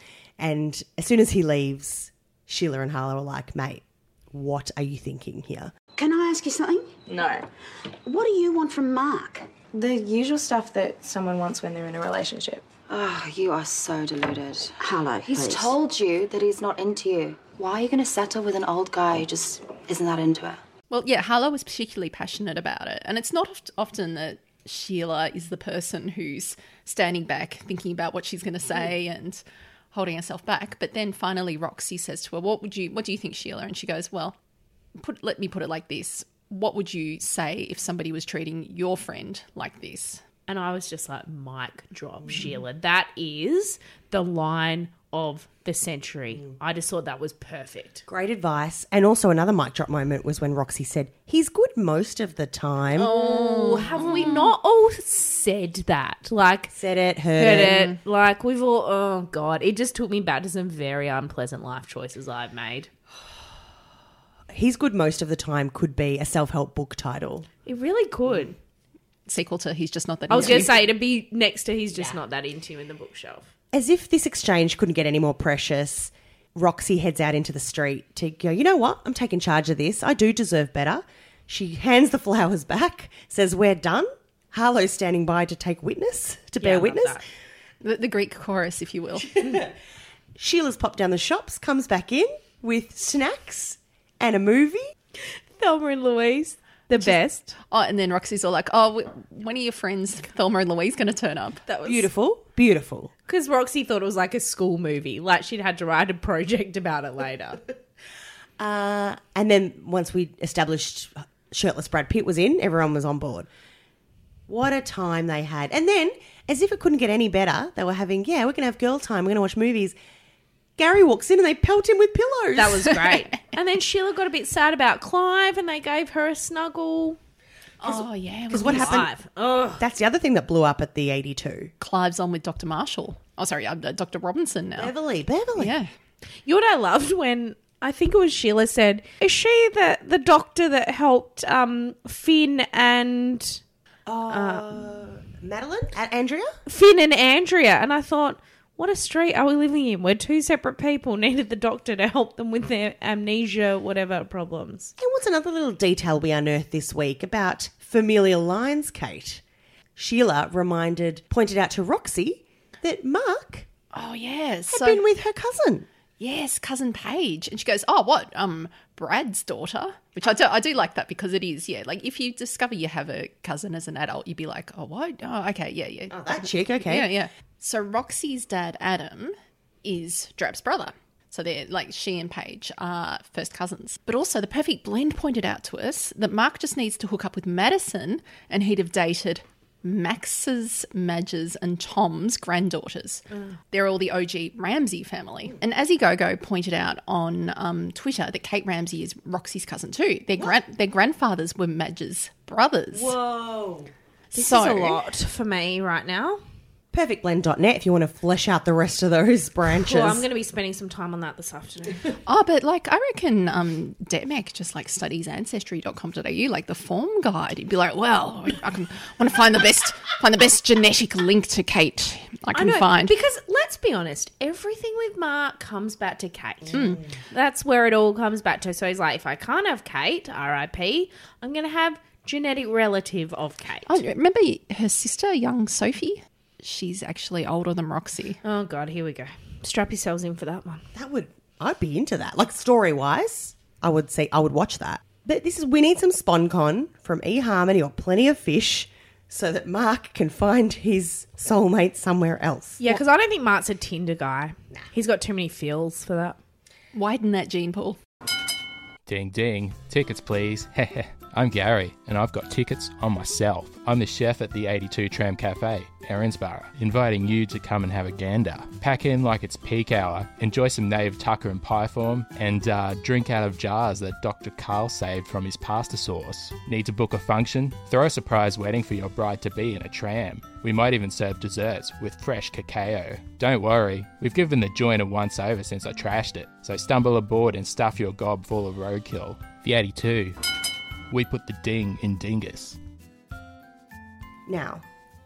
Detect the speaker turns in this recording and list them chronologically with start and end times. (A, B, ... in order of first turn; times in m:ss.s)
0:00.4-0:05.7 A
0:06.0-0:07.4 B
0:08.0-0:09.5 B
0:09.7-0:12.7 C
0:12.8-0:20.6 D
0:14.8-0:15.8 B
0:20.9-0:29.4 E
0:29.9-0:34.4 E
0:35.0-0:40.2 E
0:40.5-0:48.0 F
0:48.1-0:53.1 A
0:53.0-0:56.7 F
0:53.0-0:54.5 E
0:56.7-0:57.9 A
0:57.4-1:02.9 F
1:04.5-1:07.5 A
1:07.6-1:08.5 F
1:09.3-1:10.9 E
1:10.3-1:13.5 F
1:10.3-1:10.7 A
1:13.7-1:27.2 A
1:26.6-1:27.2 F
1:27.8-1:29.3 E
1:29.4-1:29.7 A
1:30.4-1:34.9 A
1:35.2-1:37.6 F
1:37.7-1:41.6 E
1:41.7-1:42.1 F
1:41.8-1:43.1 A
1:43.3-1:47.6 F
1:48.6-1:53.5 A
1:54.5-2:00.0 A
2:00.8-2:03.0 A
2:02.5-2:07.2 F
2:07.8-2:09.0 E
2:07.8-2:09.1 A
2:08.6-2:09.8 F
2:09.8-2:11.7 A
2:11.8-2:14.9 E
2:14.8-2:15.8 A
2:15.6-2:15.9 E
2:16.4-2:23.6 F
2:24.0-2:26.6 A
2:24.3-2:24.7 F
2:26.6-2:34.9 F
2:35.0-2:39.4 A
2:40.0-2:43.7 A
2:43.9-2:45.0 E
2:44.7-2:45.9 A
2:46.2-3:23.2 E
2:56.1-2:57.1 A
3:22.9-3:23.9 A
3:24.3-3:25.0 E
3:24.3-3:26.4 F
3:26.9-3:30.2 A
3:29.8-3:32.2 F
3:32.2-3:43.2 E
3:42.5-3:46.8 F
3:46.7-3:47.0 A
3:46.7-3:47.0 E
3:47.3-3:53.9 F
3:53.9-3:58.4 E
3:58.4-4:00.8 F
4:00.9-4:12.8 A
4:12.8-4:16.4 F
4:16.9-4:18.0 E
4:19.0-4:50.4 G
4:51.1-4:52.8 G
4:54.5-4:54.8 A